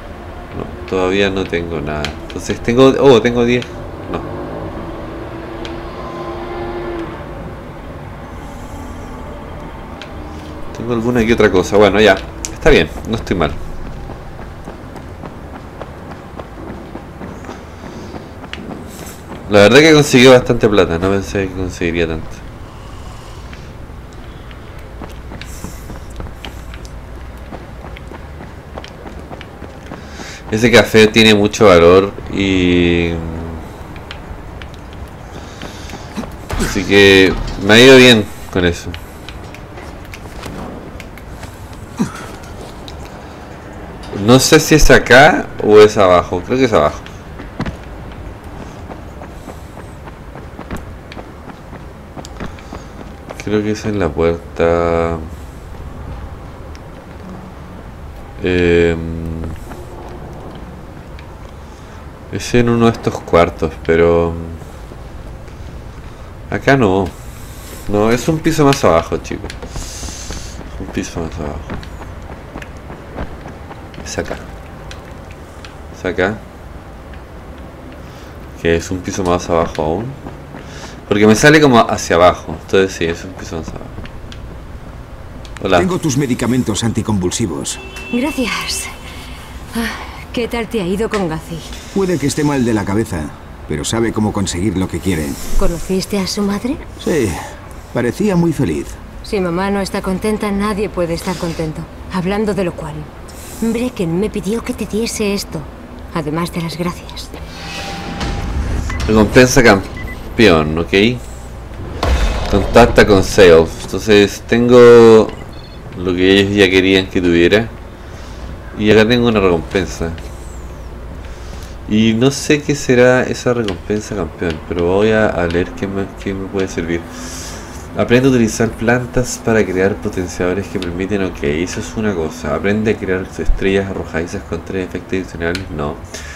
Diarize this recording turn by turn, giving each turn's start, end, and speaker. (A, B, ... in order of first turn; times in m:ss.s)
0:00.5-0:04.3 A
0:10.7-0:13.6 A
0:19.5-0:22.4 A
0:30.5-0:33.6 A
0:36.6-0:39.0 A
0:44.1-0:47.0 A
0:53.4-0:55.2 A
0:58.4-0:59.6 A
1:02.3-1:04.6 A
1:06.5-1:07.2 A
1:07.9-1:09.6 A
1:10.7-1:11.8 A
1:14.0-1:14.5 A
1:15.9-1:16.4 A
1:18.6-1:20.2 A
1:21.1-1:24.0 A
1:25.6-1:25.9 A
1:25.7-1:27.8 B
1:28.1-1:28.9 C
1:29.7-1:31.6 C
1:31.9-1:35.4 B
1:35.6-1:36.8 C
1:37.0-1:37.4 B
1:37.9-1:38.9 B
1:39.2-1:43.1 C
1:43.6-1:47.3 C
1:49.1-1:51.2 A
1:52.5-1:57.7 A
1:58.7-2:00.2 A
2:01.9-2:16.0 A